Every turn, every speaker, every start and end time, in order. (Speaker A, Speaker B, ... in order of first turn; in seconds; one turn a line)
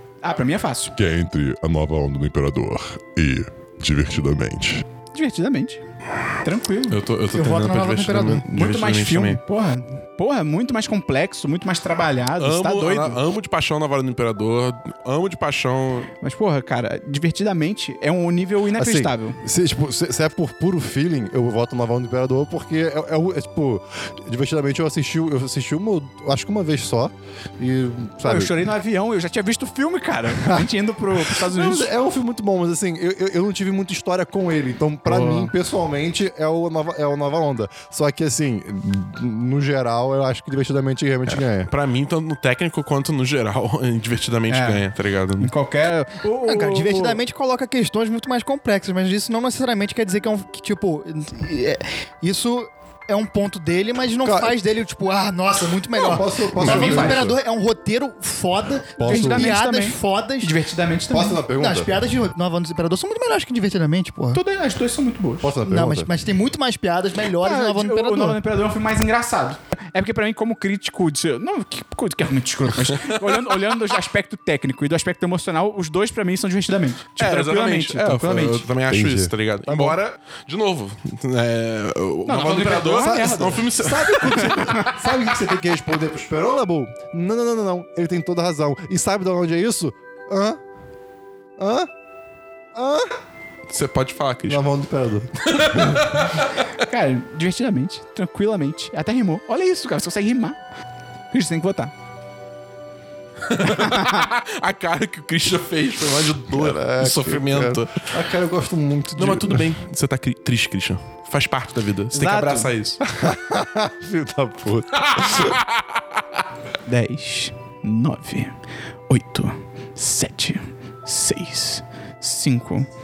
Speaker A: 0.2-0.9
Speaker B: 0.9-4.8
Speaker A: 5.1-5.8
Speaker A: 6.4-7.0
Speaker C: 6.9-9.4
Speaker D: 7.3-8.4
Speaker A: 8.5-13.2
Speaker C: 12.4-16.1
Speaker A: 16.2-19.4
Speaker E: 18.8-28.7
Speaker A: 28.2-31.9
Speaker E: 30.3-41.7
Speaker A: 35.0-35.5
Speaker C: 41.3-45.5
Speaker A: 44.5-44.8
Speaker A: 45.4-47.2
Speaker D: 46.4-60.5
Speaker E: 54.2-54.6
Speaker E: 55.9-57.4
Speaker C: 56.6-56.9
Speaker A: 56.6-57.2
Speaker E: 59.0-59.5
Speaker A: 59.0-61.4
Speaker E: 61.1-61.9
Speaker D: 61.6-64.4
Speaker A: 64.3-65.5
Speaker E: 65.4-66.1
Speaker D: 65.6-68.4
Speaker A: 67.4-78.6
Speaker C: 73.0-73.6
Speaker C: 77.2-84.9
Speaker E: 78.9-80.0
Speaker A: 82.2-84.9
Speaker E: 82.4-90.6
Speaker E: 91.6-91.9
Speaker E: 92.7-93.1
Speaker C: 93.7-94.6
Speaker E: 94.5-96.0
Speaker C: 95.4-96.5
Speaker A: 96.8-100.6
Speaker A: 101.3-101.9
Speaker C: 103.5-108.1
Speaker A: 103.6-104.2
Speaker E: 106.5-109.7
Speaker C: 109.2-113.0
Speaker A: 112.1-112.7
Speaker E: 113.0-115.5
Speaker C: 115.0-115.8
Speaker A: 116.8-118.5
Speaker A: 119.1-122.9